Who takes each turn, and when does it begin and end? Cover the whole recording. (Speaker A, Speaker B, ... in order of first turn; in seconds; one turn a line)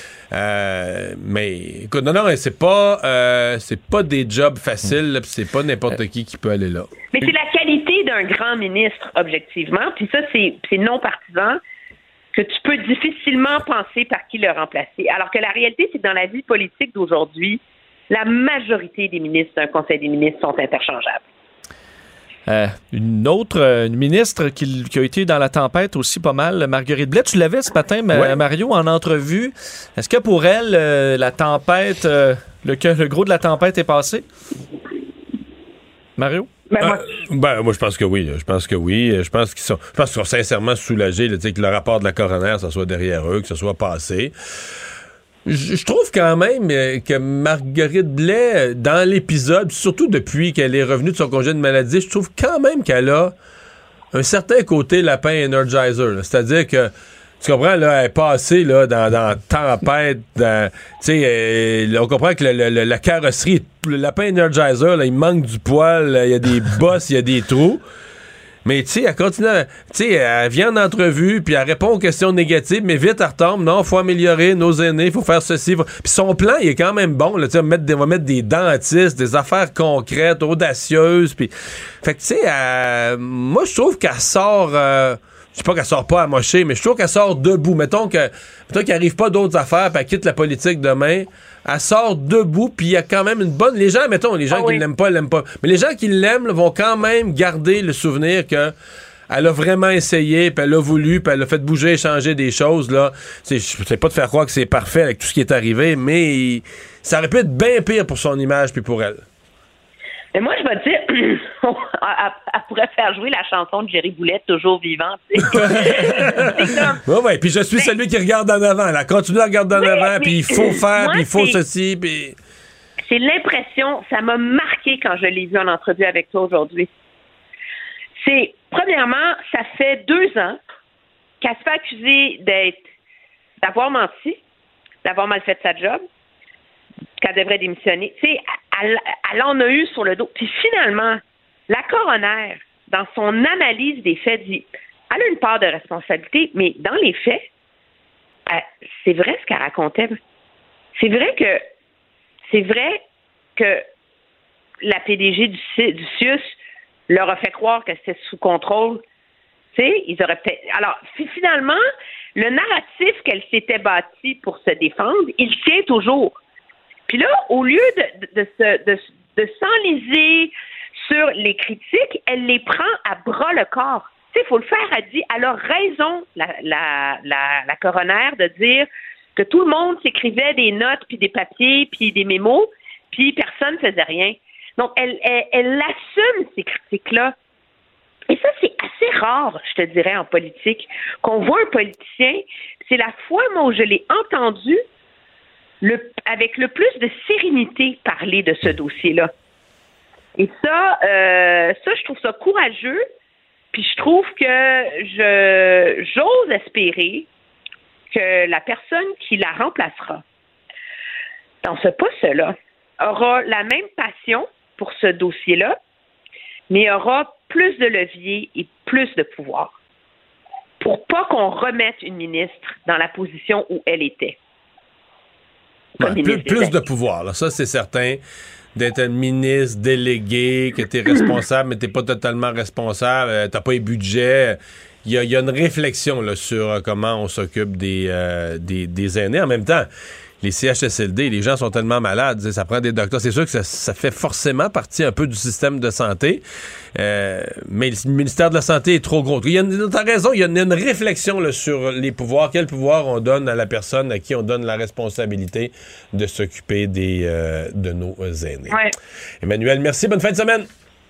Speaker A: 0.3-7.3
Speaker B: 7.2-11.6
Speaker B: 12.3-21.2
Speaker C: 22.5-34.2
Speaker A: 28.1-28.4
Speaker C: 36.2-36.5
Speaker B: 36.7-37.0
Speaker A: 36.8-44.4
Speaker A: 45.5-53.3
Speaker A: 54.1-67.8
Speaker A: 68.7-98.8
Speaker B: 94.5-94.8
Speaker A: 99.3-109.2
Speaker B: 110.3-117.0
Speaker A: 115.5-122.4
Speaker B: 119.7-121.6
Speaker B: 123.1-126.9
Speaker B: 128.2-130.6
Speaker B: 131.4-132.8
Speaker B: 133.6-134.4
Speaker B: 135.0-136.0
Speaker B: 137.2-147.5
Speaker B: 148.5-150.2
Speaker B: 150.9-151.6
Speaker B: 152.5-153.0
Speaker B: 153.6-153.8
Speaker B: 154.8-156.5
Speaker B: 157.1-159.0
Speaker B: 159.7-161.8
Speaker B: 162.4-166.4
Speaker B: 167.1-187.3
Speaker B: 188.3-194.8
Speaker B: 195.8-199.3
Speaker B: 200.4-203.0
Speaker B: 203.7-207.3
Speaker B: 208.1-210.2
Speaker B: 211.6-215.8
Speaker B: 216.7-219.7
Speaker B: 220.8-224.4
Speaker B: 226.0-226.7
Speaker A: 226.0-228.2
Speaker A: 228.8-239.9
Speaker A: 240.4-246.4
Speaker A: 246.9-258.8
Speaker A: 259.4-260.7